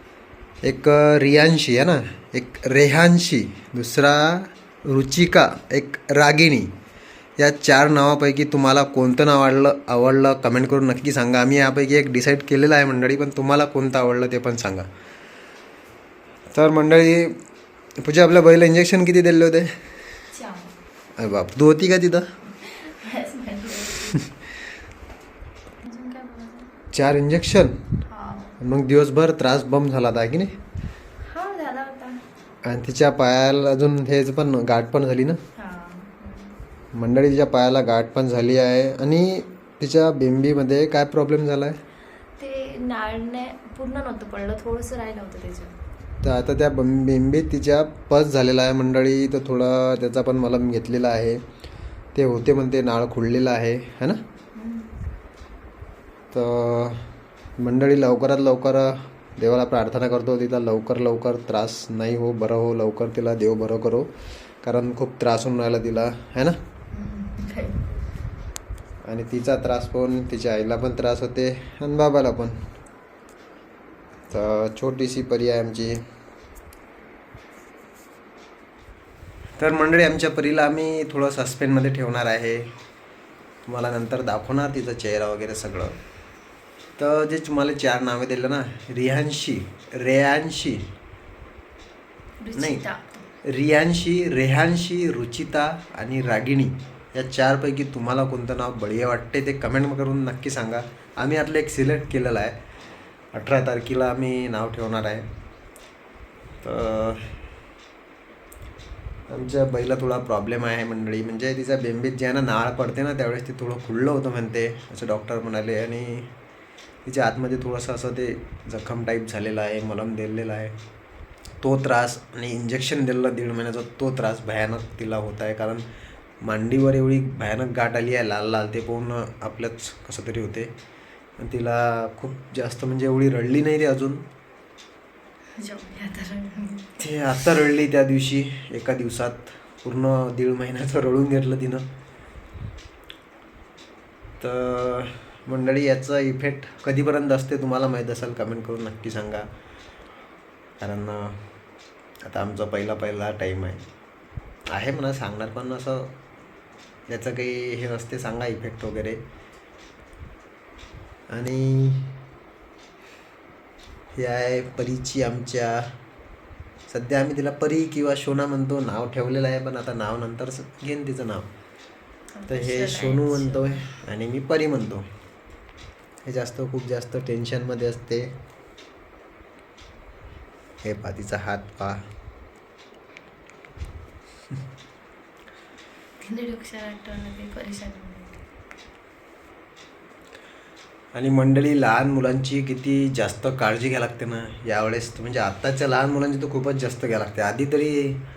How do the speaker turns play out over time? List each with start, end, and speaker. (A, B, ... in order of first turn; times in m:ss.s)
0:00.6-0:06.7 A
0:07.4-0:14.9 A
0:16.5-0:17.4 A
0:18.0-0:19.8 A
0:20.3-0:20.8 B
0:21.2-0:22.3 A
0:22.6-0:24.2 B
0:25.8-0:26.7 B
0:26.9-0:27.8 A
0:28.1-0:28.6 B
0:28.6-0:30.6 A
0:31.2-0:32.2 B
0:32.6-0:35.4 A
0:35.6-0:36.6 B
0:36.9-0:41.8 A
0:42.4-0:45.8 B
0:46.2-0:51.4 A
0:52.2-0:54.2 A
0:54.6-0:54.9 B
0:56.3-0:57.1 A
0:57.6-1:04.1 A
1:04.6-1:06.6 A
1:06.9-1:07.9 B
1:09.0-1:12.7 A
1:14.3-1:16.0 A
1:19.6-1:22.7 A
1:23.7-1:26.0 A
1:27.0-1:30.8 A
1:32.4-1:33.2 B
1:32.6-1:32.8 A
1:33.4-1:42.6 A
1:43.3-1:45.3 A
1:46.6-1:47.4 A
1:49.3-1:56.3 A
1:57.0-2:00.8 A
2:01.6-2:05.8 A
2:06.4-2:10.7 A
2:11.4-2:14.2 A
2:15.6-2:17.0 B
2:17.0-2:21.9 A
2:24.4-2:29.5 A
2:30.8-2:31.4 A
2:32.2-2:33.8 A
2:34.7-2:36.1 A
2:37.1-2:39.2 A
2:41.3-2:42.1 A
2:44.2-2:45.9 A
2:46.9-2:51.5 A
2:52.4-2:53.8 B
2:52.5-2:55.1 A
2:56.2-2:58.3 A
3:00.8-3:02.0 A
3:06.2-3:08.4 B
3:11.1-3:18.2 A